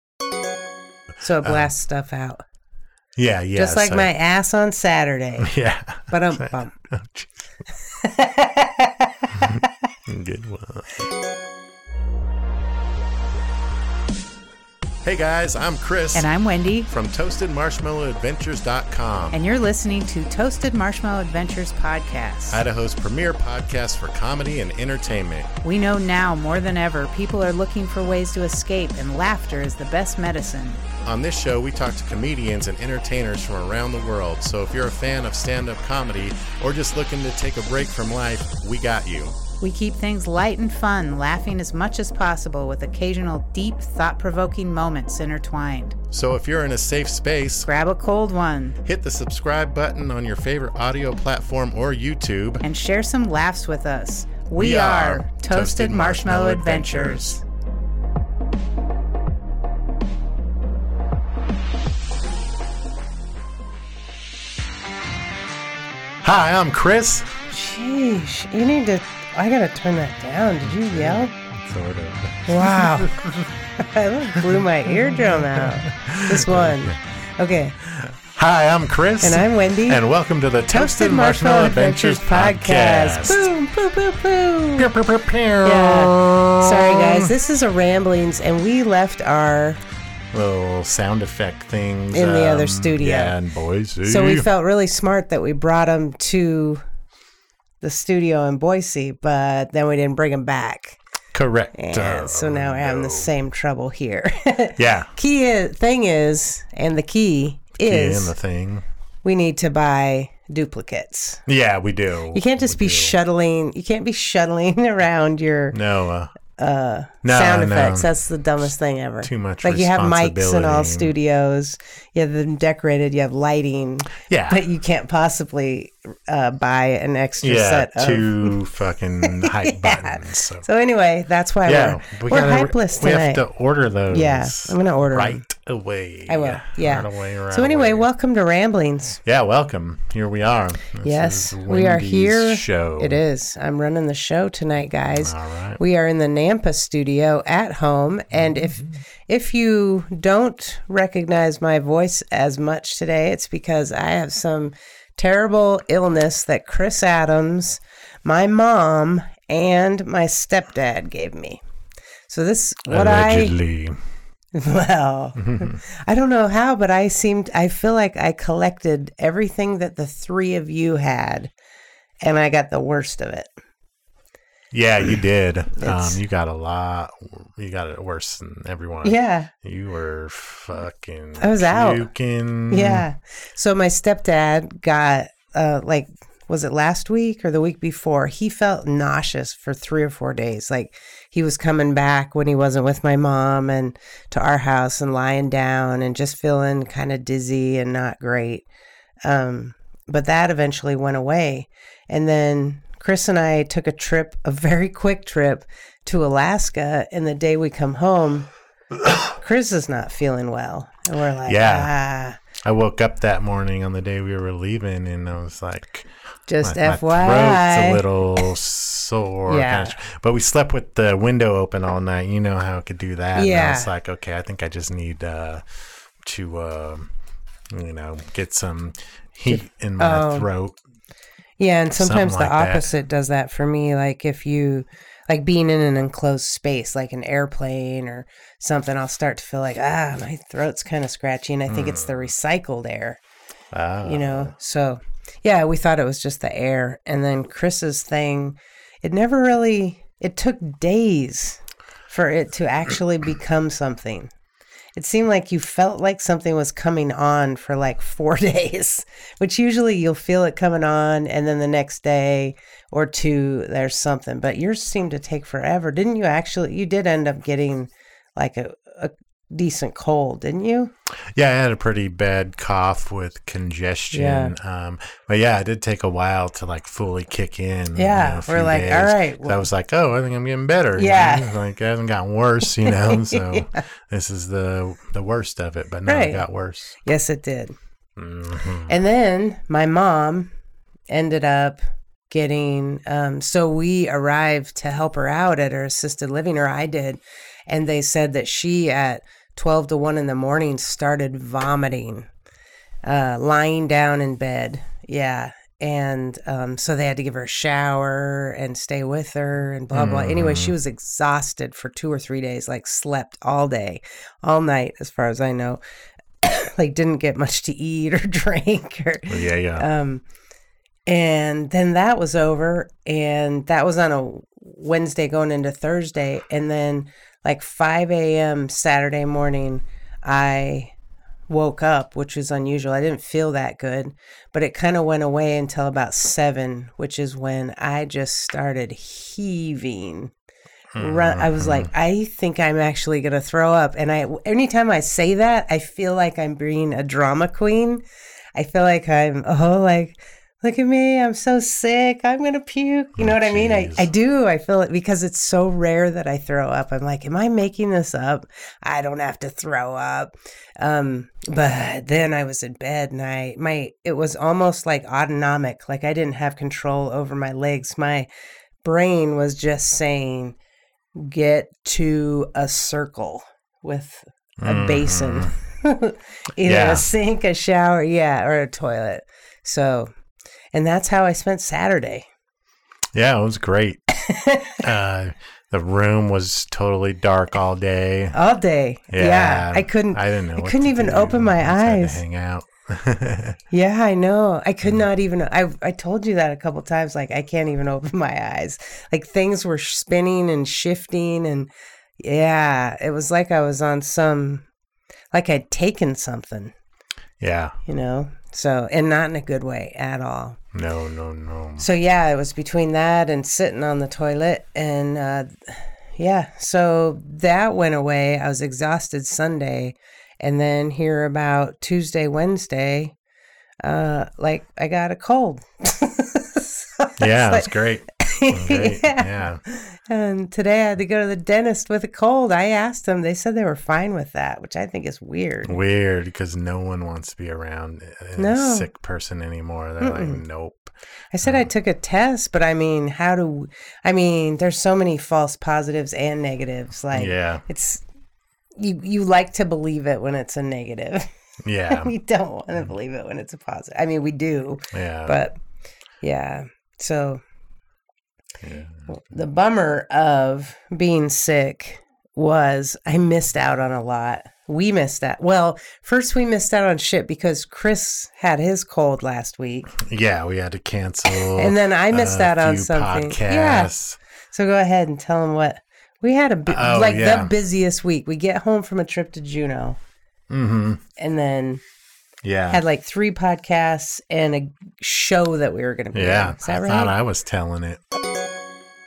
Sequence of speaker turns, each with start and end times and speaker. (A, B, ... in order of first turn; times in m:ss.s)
0:01.2-0:02.4 A
0:01.4-0:01.7 B
0:03.2-0:04.1 B
0:03.6-0:05.5 A
0:05.4-0:07.3 B
0:06.1-0:06.8 A
0:08.0-0:09.7 A
0:09.3-0:11.1 B
0:15.0-0:16.3 B
0:16.1-0:16.9 C
0:16.9-0:19.4 B
0:19.3-0:22.6 C
0:22.5-0:25.5 B
0:25.6-0:30.8 C
0:31.0-0:39.4 B
0:39.6-0:46.0 C
0:46.1-0:47.7 B
0:47.7-0:48.8 C
0:48.8-0:52.6 B
0:52.6-0:57.4 C
0:54.6-0:57.4 B
1:06.2-1:07.3 B
1:07.5-1:11.3 A
1:10.6-1:13.6 B
1:12.5-1:13.2 A
1:13.8-1:17.8 A
1:14.4-1:16.9 B
1:17.8-1:23.5 B
1:19.2-1:20.0 A
1:20.7-1:24.9 A
1:24.8-1:27.3 B
1:25.6-1:29.8 A
1:30.3-1:34.5 B
1:32.1-1:33.3 A
1:34.0-1:36.8 A
1:37.8-1:41.0 A
1:41.3-1:43.3 B
1:41.7-1:48.3 A
1:44.8-1:45.1 B
1:47.8-1:48.8 B
1:49.2-1:51.4 A
1:51.4-1:53.2 B
1:52.3-1:55.8 A
1:55.7-1:56.3 B
1:56.6-2:08.6 A
1:57.2-1:58.1 B
1:59.2-2:01.1 B
2:04.2-2:04.6 B
2:07.4-2:10.6 B
2:09.2-2:13.4 A
2:11.6-2:18.1 B
2:14.1-2:15.4 A
2:16.3-2:19.2 A
2:19.2-2:23.2 B
2:21.0-2:41.6 A
2:25.1-2:25.8 B
2:28.3-2:29.0 B
2:42.3-2:43.6 A
2:42.8-2:44.0 B
2:44.5-2:51.5 A
2:45.4-2:45.8 B
2:52.2-2:53.5 A
2:54.7-3:03.0 B
2:55.8-2:56.2 A
2:59.0-2:59.5 A
3:01.4-3:02.1 A
3:02.7-3:18.6 A
3:19.2-3:28.5 A
3:29.3-3:32.4 A
3:31.4-3:31.9 B
3:32.6-3:36.1 B
3:36.5-3:38.0 A
3:36.6-3:45.6 B
3:39.5-3:40.0 A
3:43.3-3:43.9 A
3:46.2-3:47.1 B
3:47.7-3:50.8 B
3:49.5-3:50.5 A
3:51.6-4:03.2 A
3:52.0-3:52.9 B
4:01.7-4:02.3 B
4:03.7-4:04.5 B
4:04.0-4:14.3 A
4:15.0-4:30.9 A
4:31.3-4:47.0 B
4:34.1-4:34.5 A
4:37.9-4:39.7 A
4:40.9-4:41.5 A
4:42.8-4:43.8 A
4:46.0-4:46.4 A
4:47.0-4:47.8 A
4:48.2-4:48.9 B
4:48.9-4:50.5 A
4:51.1-5:02.3 A
5:03.0-5:15.8 A
5:09.9-5:10.7 B
5:16.4-5:20.2 A
5:19.3-5:19.8 B
5:21.0-5:30.9 A
5:31.5-5:40.3 A
5:40.9-5:41.9 B
5:41.0-5:48.0 A
5:48.5-6:08.3 A
5:53.2-5:54.1 B
6:08.8-6:10.6 A
6:11.2-6:20.1 A
6:14.6-6:15.5 B
6:16.6-6:17.1 B
6:20.7-6:22.2 A
6:23.1-6:24.0 B
6:24.2-6:24.8 A
6:24.8-6:28.4 B
6:28.3-6:32.2 A
6:29.1-6:33.6 B
6:33.7-6:44.6 A
6:45.3-6:46.7 A
6:47.4-6:47.8 B
6:47.8-6:50.6 A
6:50.7-6:51.9 B
6:51.8-7:03.1 A
7:03.8-7:15.8 A
7:07.2-7:09.6 B
7:15.6-7:21.7 B
7:18.4-7:18.9 A
7:20.0-7:20.4 A
7:21.3-7:28.0 A
7:27.1-7:27.6 B
7:28.8-7:31.3 A
7:31.6-7:32.1 B
7:31.9-7:35.6 A
7:34.9-7:35.4 B
7:36.2-7:37.4 A
7:38.6-7:39.2 B
7:39.1-7:49.9 A
7:49.9-7:54.2 B
7:51.6-7:53.9 A
7:54.5-8:00.0 A
7:56.7-7:57.5 B
8:00.5-8:01.0 B
8:01.2-8:01.8 A
8:02.4-8:02.8 B
8:02.7-8:07.1 A
8:06.1-8:08.0 B